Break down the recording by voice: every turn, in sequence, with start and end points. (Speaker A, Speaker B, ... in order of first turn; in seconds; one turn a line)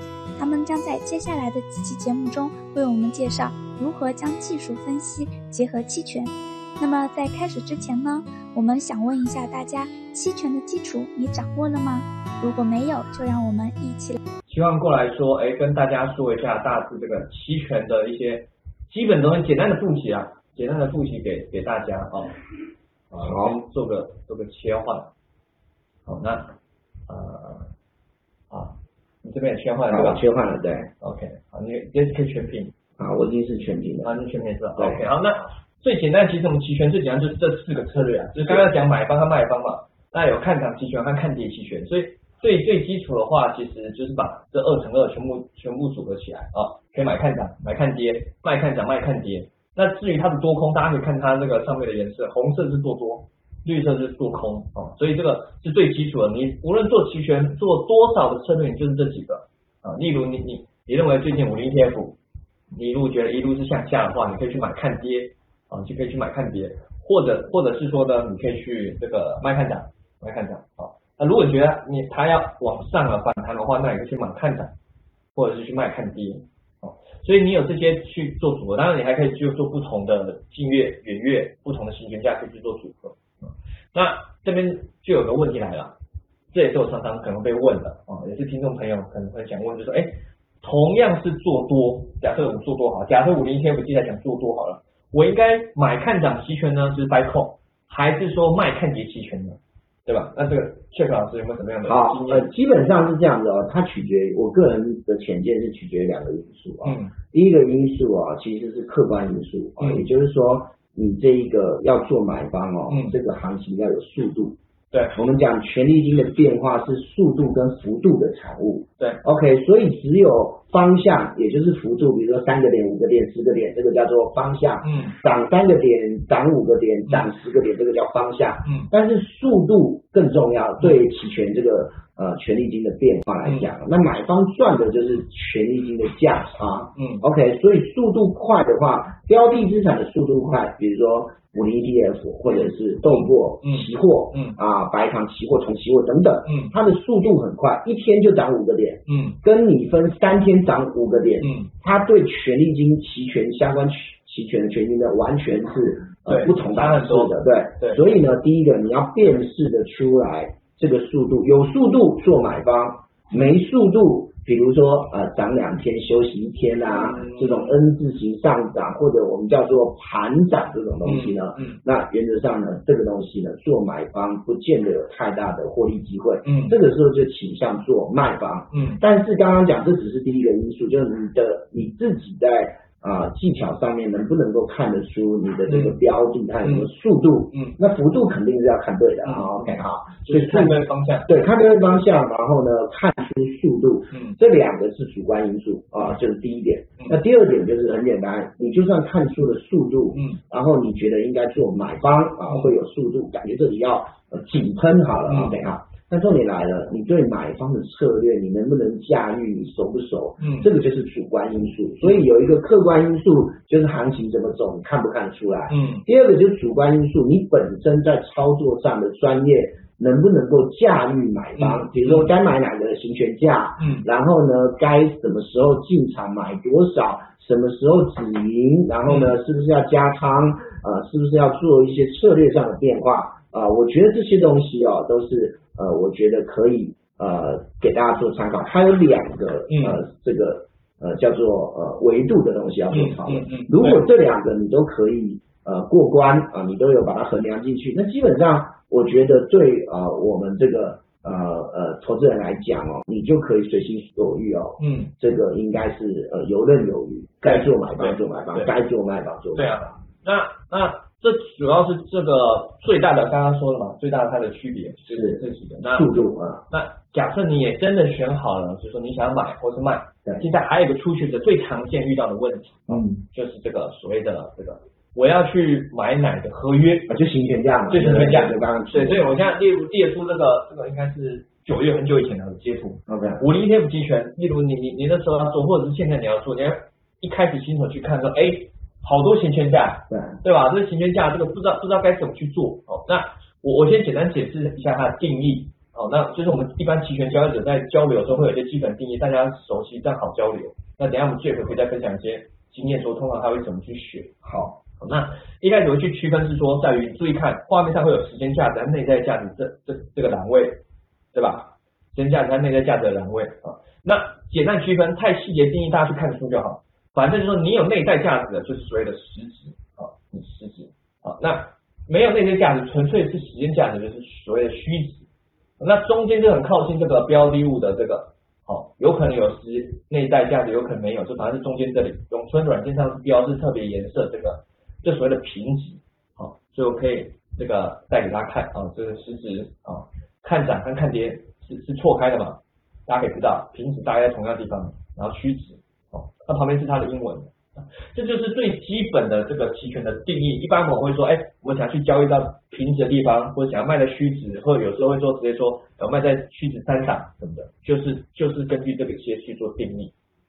Speaker A: 0.4-14.2
Speaker B: 14.5-22.4
Speaker B: 23.1-25.1
Speaker C: 23.2-23.6
Speaker B: 26.1-26.5
Speaker B: 27.1-27.7
Speaker B: 28.5-30.2
Speaker C: 29.9-30.9
Speaker B: 31.0-32.7
Speaker C: 33.0-34.1
Speaker B: 34.0-62.2
Speaker C: 34.8-35.1
Speaker C: 38.4-38.7
Speaker B: 62.7-74.7
Speaker B: 75.3-86.0
Speaker B: 86.5-102.5
Speaker C: 101.8-114.6
Speaker B: 106.8-107.1
Speaker B: 109.8-110.1
Speaker B: 112.9-113.2
Speaker B: 114.9-115.2
Speaker C: 115.1-260.0
Speaker B: 124.8-125.2
Speaker B: 133.4-133.7
Speaker B: 136.9-137.2
Speaker B: 143.0-144.6
Speaker B: 146.4-146.7
Speaker B: 149.1-149.4
Speaker B: 151.4-151.7
Speaker B: 156.3-158.0
Speaker B: 166.9-167.7
Speaker B: 171.0-171.8
Speaker B: 176.4-176.8
Speaker B: 178.7-179.0
Speaker B: 185.7-186.0
Speaker B: 186.6-186.9
Speaker B: 189.2-189.7
Speaker B: 190.3-191.3
Speaker B: 194.1-194.4
Speaker B: 205.3-205.6
Speaker B: 210.4-210.7
Speaker B: 215.7-216.0
Speaker B: 221.6-222.3
Speaker B: 223.8-224.1
Speaker B: 229.1-229.4
Speaker B: 239.7-240.0
Speaker B: 242.9-244.0
Speaker B: 254.8-255.1
Speaker B: 257.4-258.7
Speaker B: 259.6-277.1
Speaker C: 265.1-266.6
Speaker C: 272.9-273.2
Speaker C: 277.1-279.4
Speaker B: 277.9-304.4
Speaker C: 283.1-283.4
Speaker C: 290.1-290.4
Speaker C: 304.4-304.8
Speaker B: 305.0-310.8
Speaker B: 311.3-325.3
Speaker B: 325.8-360.1